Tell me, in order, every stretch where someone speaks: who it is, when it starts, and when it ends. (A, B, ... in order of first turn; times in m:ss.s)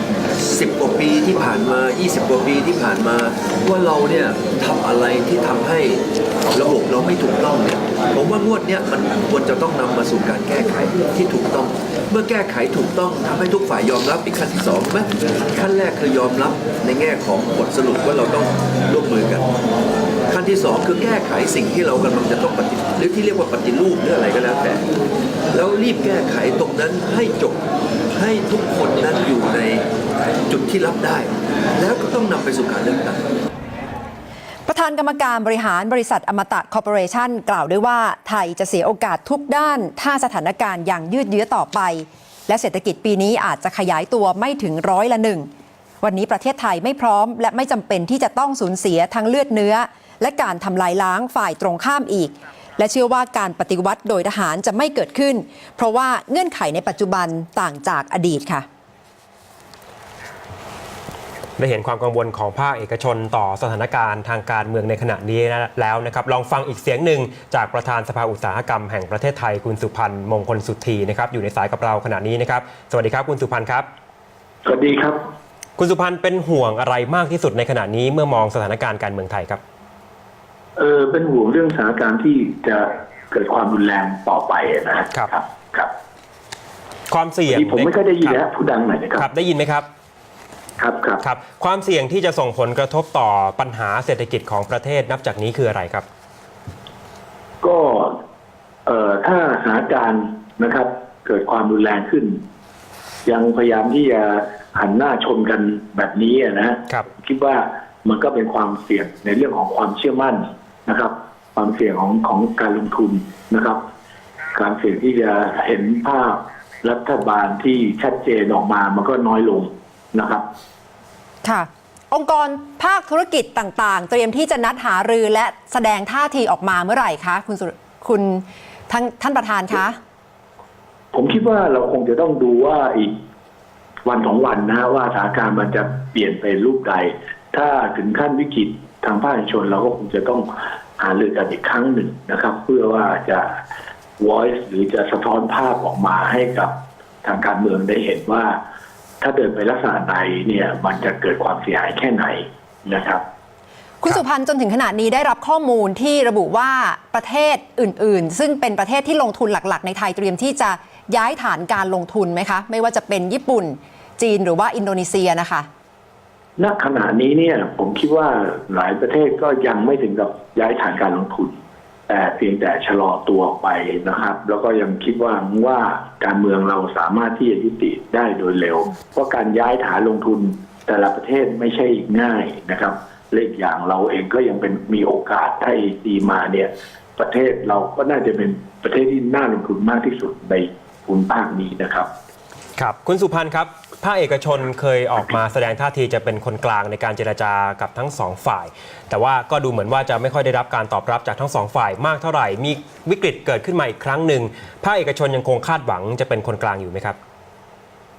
0:00.4-0:19.5 A
0:20.3-0:24.8 A
0:25.5-0:29.8 A
0:30.5-0:33.3 A
0:34.7-0:45.5 B
0:46.0-0:58.6 B
1:01.6-1:13.8 C
1:14.6-1:15.2 D
1:15.8-1:19.6 C
1:20.8-1:25.9 D
1:27.1-1:28.4 C
1:27.5-1:29.3 D
1:29.2-1:29.9 C
1:30.8-1:31.2 D
1:31.2-1:36.1 C
1:37.6-1:38.1 D
1:38.8-1:42.4 D
1:43.2-1:53.8 D
1:54.5-2:00.4 D
2:01.4-2:10.0 B
2:11.1-2:13.1 D
2:14.0-2:23.6 D
2:24.2-2:28.6 D
2:29.2-2:33.2 D
2:34.0-2:45.7 B
2:46.6-2:51.6 D
2:52.1-3:12.1 D
3:12.8-3:27.2 C